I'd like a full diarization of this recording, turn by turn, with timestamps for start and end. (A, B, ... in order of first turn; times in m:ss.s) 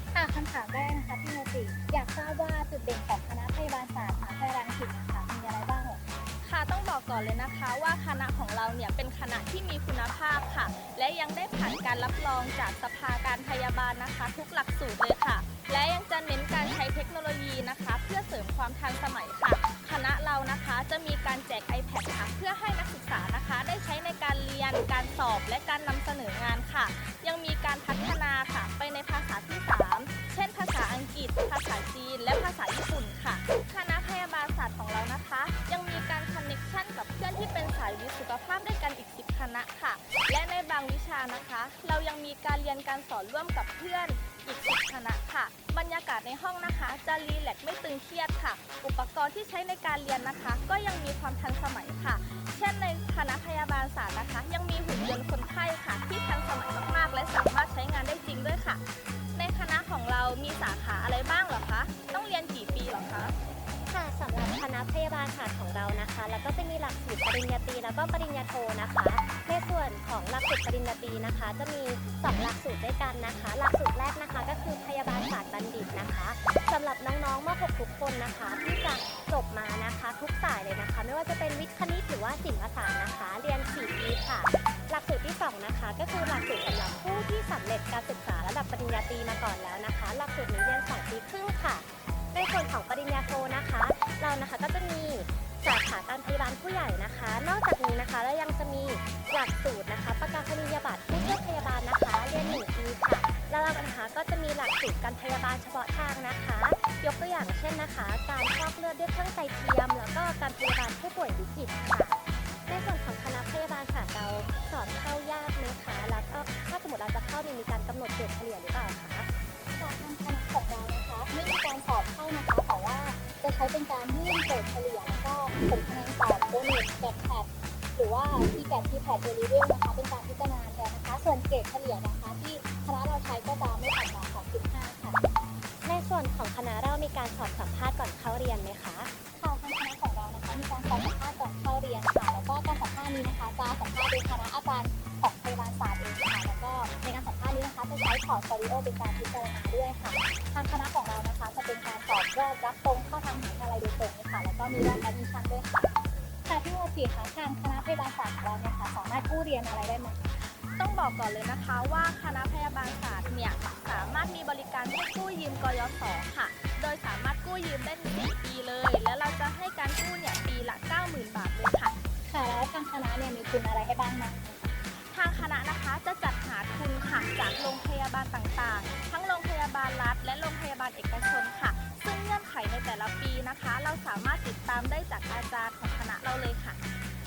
0:00.1-0:06.0 A
0:06.4-0:58.8 B
0:59.3-1:03.3 B
1:03.9-1:59.3 C
1:59.8-2:15.2 A
2:15.8-2:19.1 C
2:19.4-2:40.2 A
2:40.8-2:51.9 B
2:52.3-2:54.7 A
2:55.1-3:06.8 B